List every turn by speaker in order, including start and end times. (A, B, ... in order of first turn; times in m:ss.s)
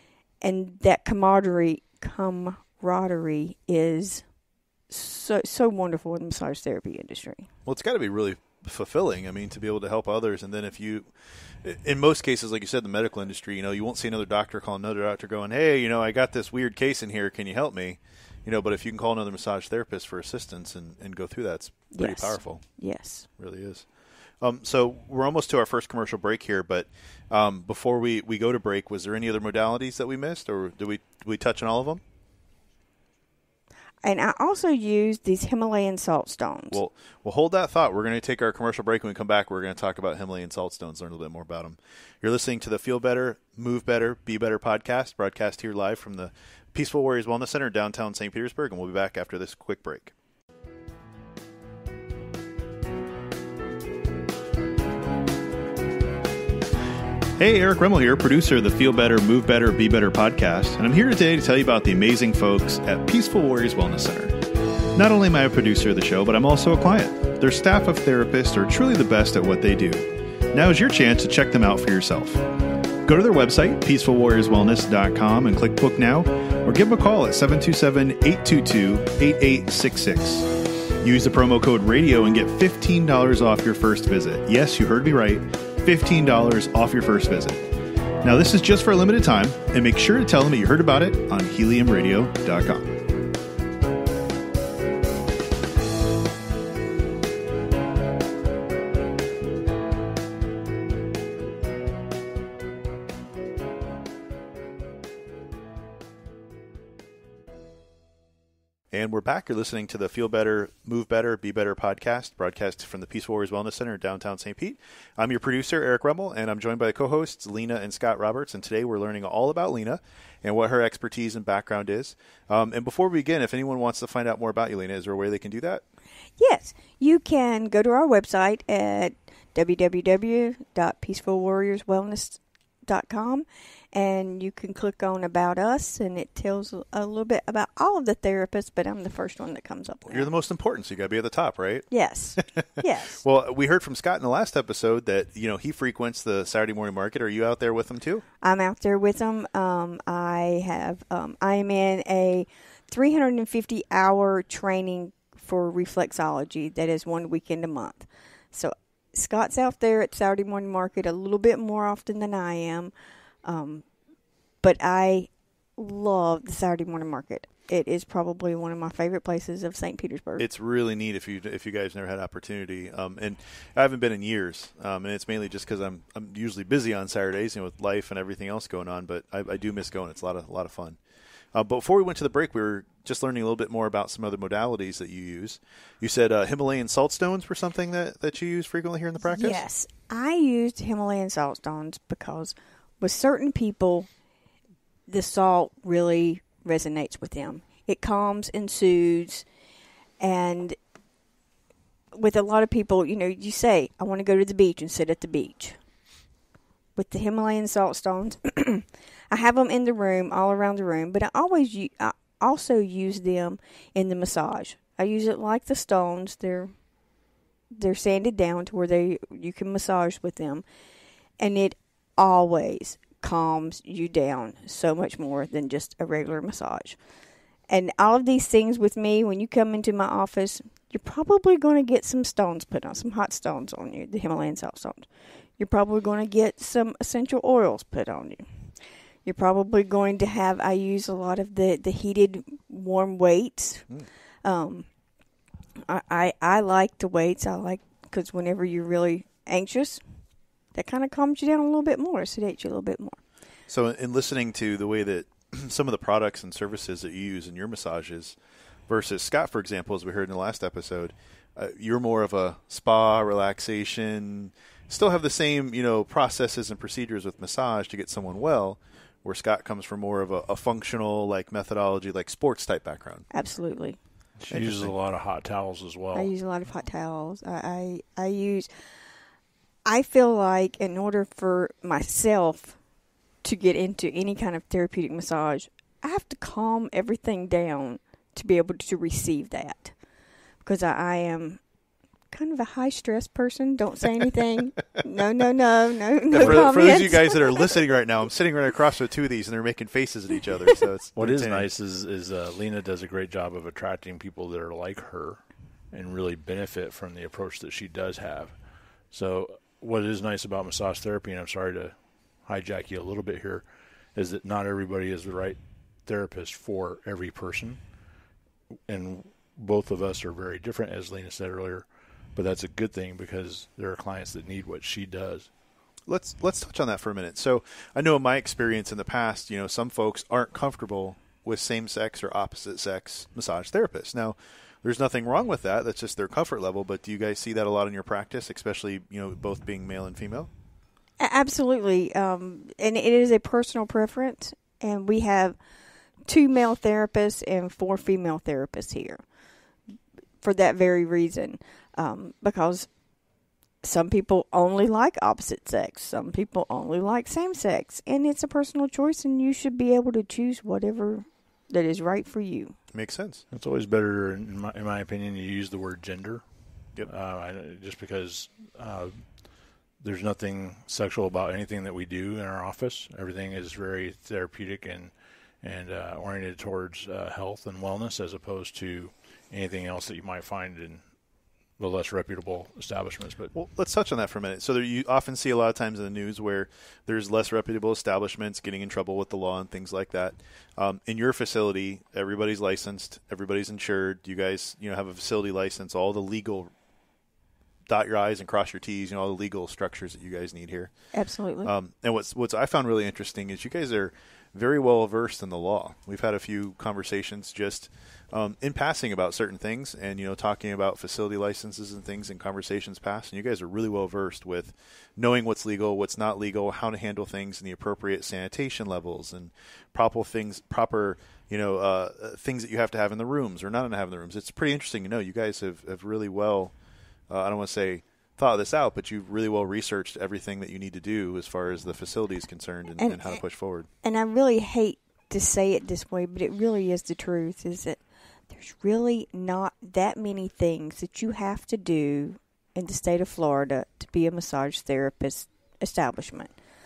0:00.4-0:04.2 A
0:04.9-0:07.5 A
0:07.6-0:11.1 B
0:11.6-0:22.6 B
0:21.9-0:23.3 A
0:23.4-0:23.9 B
0:24.4-0:32.0 B
0:34.0-0:36.8 A
0:36.7-0:50.1 B
0:57.4-1:04.4 B
1:05.0-1:12.4 B
1:13.0-1:20.5 B
1:21.0-1:27.6 B
1:28.2-1:32.9 B
1:48.9-2:05.8 B
2:06.4-2:20.3 A
2:20.0-2:22.4 B
2:21.9-2:23.2 A
2:23.2-2:28.2 B
2:28.4-2:42.9 A
2:43.4-2:43.8 A
2:44.6-2:50.4 A
2:50.4-3:01.0 B
3:01.5-3:09.6 B
3:09.2-3:14.1 A
3:15.1-3:19.4 A
3:20.2-3:20.8 A
3:22.1-3:25.8 A
3:27.0-3:36.7 A
3:37.7-3:40.6 A
3:41.4-3:47.0 A
3:47.7-3:58.5 A
3:59.2-4:03.8 A
4:04.4-4:04.9 A
4:05.8-4:10.0 A
4:10.7-4:13.2 A
4:13.7-4:18.4 B
4:18.9-4:33.2 B
4:33.3-4:34.0 A
4:34.4-4:36.3 C
4:34.5-4:34.9 B
4:36.1-4:38.7 A
4:39.8-4:42.8 A
4:43.4-4:49.9 A
4:50.6-4:51.6 A
4:52.3-4:57.8 A
4:56.3-5:01.7 B
4:56.4-4:57.0 C
5:01.2-5:17.8 C
5:18.9-5:25.5 C
5:26.1-5:40.5 B
5:41.2-5:45.6 A
5:46.2-5:49.2 A
5:50.4-5:52.9 A
5:53.8-6:02.8 A
6:02.9-6:03.4 B
6:03.5-6:21.0 C
6:21.8-6:23.5 C
6:23.5-6:36.7 B
6:37.9-6:40.9 B
6:41.1-6:41.7 A
6:41.6-7:06.7 B
7:07.3-7:13.9 B
7:13.0-7:13.4 A
7:14.0-7:26.5 A